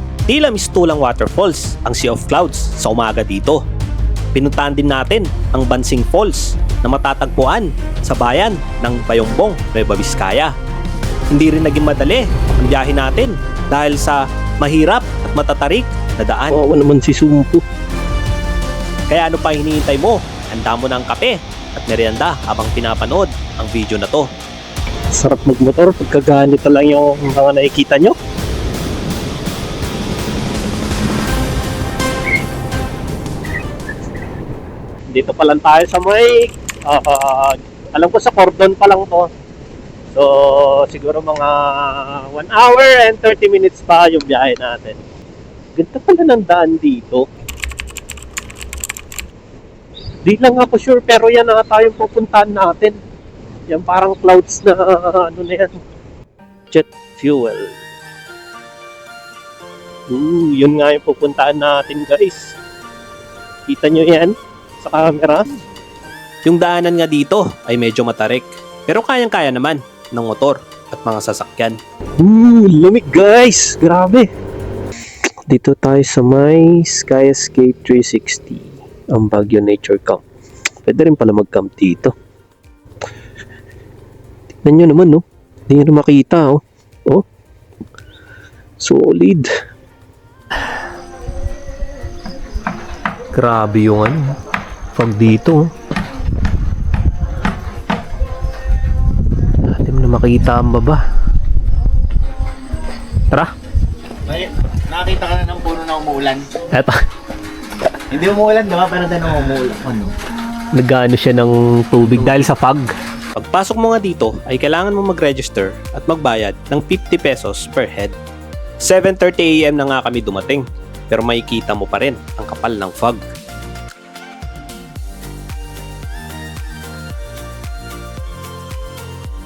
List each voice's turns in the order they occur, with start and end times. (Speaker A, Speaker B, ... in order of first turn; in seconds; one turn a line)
Speaker A: 0.3-3.6
Speaker A: 4.3-10.5
Speaker A: 11.3-16.6
Speaker B: 16.5-17.6
Speaker A: 19.1-24.3
Speaker B: 25.1-28.1
Speaker B: 35.1-39.3
Speaker B: 40.1-45.0
Speaker B: 45.8-47.3
Speaker B: 50.2-53.0
Speaker B: 53.7-55.8
Speaker B: 56.7-57.8
Speaker B: 60.1-62.6
Speaker B: 63.7-65.5
Speaker A: 66.5-71.8
Speaker B: 72.2-74.3
Speaker B: 75.5-80.2
Speaker B: 80.8-82.1
Speaker B: 84.6-87.2
Speaker B: 88.8-89.5
Speaker B: 93.3-94.2
Speaker B: 95.0-95.7
Speaker B: 99.7-101.0
Speaker C: 104.3-106.5
Speaker B: 106.7-107.0
Speaker C: 108.1-110.1
Speaker B: 110.7-112.9
Speaker A: 113.3-118.2
Speaker A: 118.8-123.2